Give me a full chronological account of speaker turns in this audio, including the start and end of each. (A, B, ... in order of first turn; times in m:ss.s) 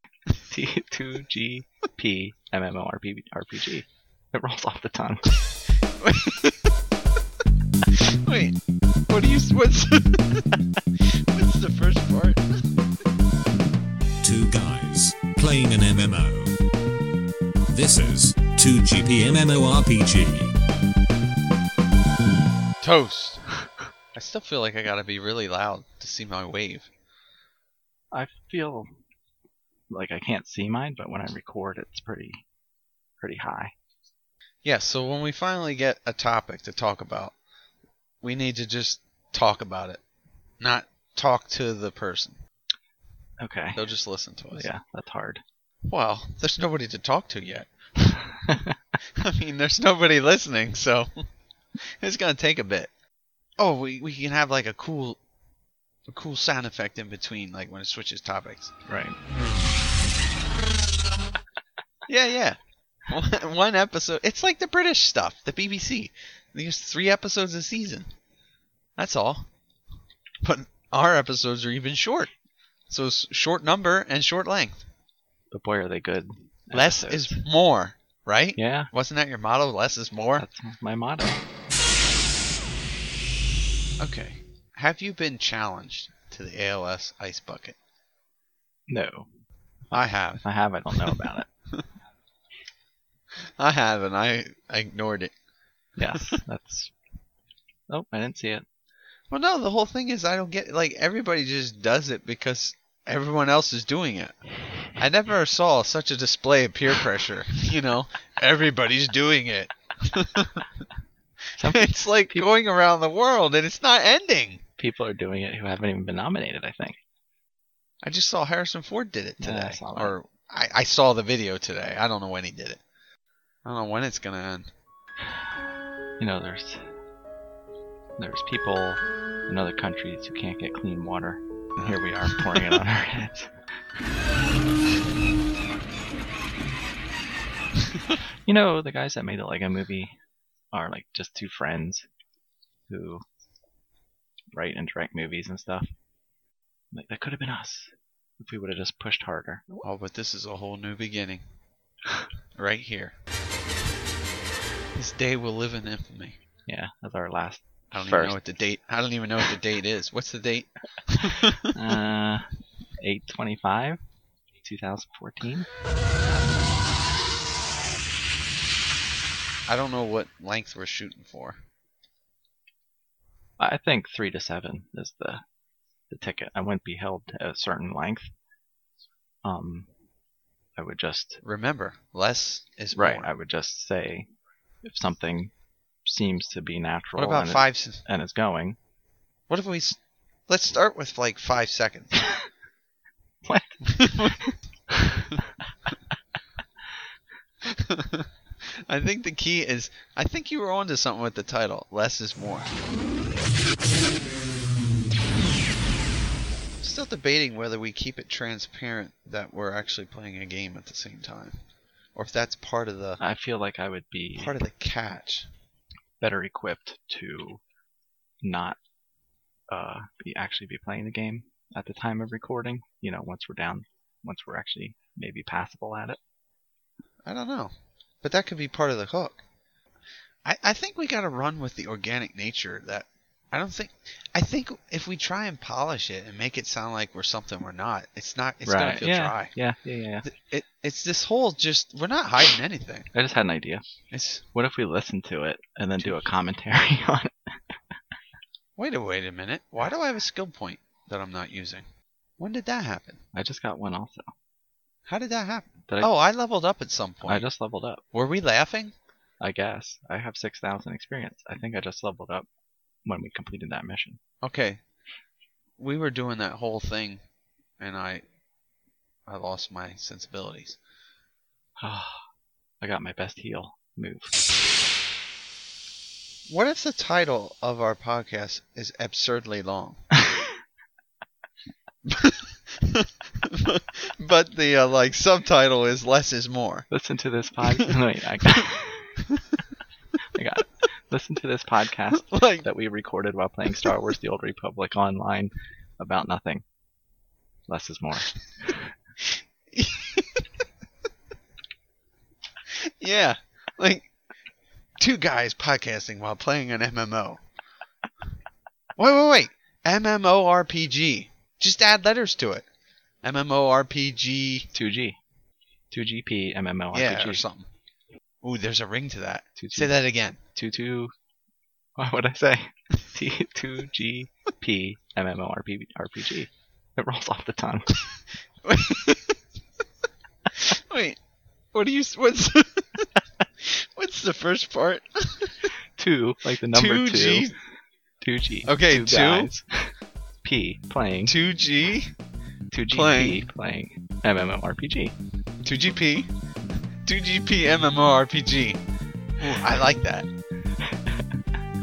0:00.5-0:05.2 A
0:06.0-0:06.7 B
0:08.2-0:08.6 B
0:09.1-0:10.4 B
0:11.3-0:12.4 B
0:14.2-0:16.6 C
0:17.7-0:20.5 C
0:22.8-0:23.4 B
0:24.1-0:26.9 B
0:28.1-0:28.9 A
0:29.9-0:32.4 A
0:33.2-0:33.7 A
0:34.6-0:37.4 B
0:38.2-0:40.0 B
0:40.6-0:42.4 B
0:43.4-0:43.8 A
0:43.8-0:44.7 B
0:44.5-0:45.4 A
0:45.9-0:48.2 B
0:49.2-0:51.1 B
0:52.0-0:52.9 B
0:53.6-0:55.2 B
0:56.1-0:58.7 B
0:58.9-0:59.2 A
1:02.1-1:08.1 B
1:09.0-1:09.4 B
1:10.4-1:12.3 B
1:12.9-1:14.9 B
1:15.5-1:17.4 A
1:16.7-1:20.5 B
1:18.6-1:18.9 A
1:20.4-1:21.4 A
1:24.0-1:27.8 B
1:28.9-1:29.3 A
1:29.9-1:31.5 A
1:29.9-1:30.4 B
1:31.0-1:31.8 B
1:33.6-1:35.3 B
1:36.0-1:36.9 A
1:37.9-1:38.6 A
1:39.3-1:44.4 B
1:44.9-1:50.7 B
1:51.6-1:52.5 A
1:51.6-1:54.6 B
1:54.8-1:57.0 A
1:58.0-2:02.8 B
1:59.4-2:00.2 A
2:03.6-2:04.7 B
2:06.2-2:06.8 A
2:08.2-2:13.5 A
2:11.8-2:12.8 B
2:18.5-2:20.1 A
2:20.7-2:22.1 A
2:22.9-2:23.2 A
2:24.5-2:25.9 A
2:26.9-2:29.8 A
2:29.8-2:31.4 B
2:32.6-2:33.2 B
2:35.0-2:36.4 B
2:36.7-2:38.4 A
2:37.9-2:41.7 B
2:41.7-2:42.5 A
2:43.0-2:44.0 A
2:44.6-2:45.7 A
2:49.7-2:51.6 B
2:53.6-2:55.4 A
2:56.1-2:58.3 A
2:59.4-2:59.9 A
3:00.8-3:01.4 A
3:01.4-3:03.3 B
3:03.0-3:04.3 A
3:04.8-3:05.5 A
3:06.1-3:08.8 A
3:07.2-3:08.0 B
3:09.5-3:12.3 B
3:13.4-3:15.4 A
3:13.9-3:14.4 B
3:17.6-3:18.3 B
3:18.9-3:22.7 B
3:26.8-3:31.6 B
3:32.2-3:33.2 B
3:33.2-3:34.6 A
3:34.4-3:35.5 B
3:36.2-3:37.6 A
3:38.4-3:38.8 A
3:39.7-3:46.2 A
3:47.3-3:49.4 B
3:50.4-3:59.5 B
3:58.7-4:00.3 A
4:00.3-4:03.1 B
4:03.1-4:03.8 A
4:04.1-4:04.4 B
4:04.5-4:07.8 A
4:08.8-4:11.9 B
4:12.4-4:13.2 B
4:13.3-4:14.3 A
4:15.1-4:17.5 B
4:17.2-4:18.0 A
4:18.1-4:18.9 B
4:19.4-4:22.5 A
4:23.0-4:24.2 A
4:24.4-4:24.8 B
4:25.8-4:27.2 B
4:27.8-4:28.2 B
4:29.3-4:30.8 B
4:31.8-4:32.2 A
4:32.8-4:34.4 A
4:36.5-4:40.0 B
4:42.1-4:46.9 B
4:46.9-4:49.2 A
4:50.4-4:56.6 A
4:52.1-4:52.7 B
4:57.7-4:58.7 A
4:59.2-5:00.5 B
5:02.7-5:04.1 B
5:05.0-5:07.4 B
5:09.0-5:12.7 B
5:13.2-5:14.7 B
5:14.7-5:15.2 A
5:15.9-5:17.4 A
5:16.9-5:17.7 B
5:18.4-5:20.4 B
5:19.6-5:19.9 A
5:20.6-5:21.1 A
5:22.0-5:27.9 A
5:28.6-5:29.4 B
5:30.5-5:31.2 B
5:31.7-5:33.1 B
5:33.6-5:35.7 B
5:36.0-5:37.5 A
5:36.7-5:37.5 B
5:38.2-5:41.4 A
5:38.6-5:39.5 B
5:41.3-5:42.1 B
5:42.7-5:45.1 A
5:42.9-5:43.4 B
5:45.6-5:46.3 B
5:47.0-5:48.8 B
5:49.4-5:50.3 B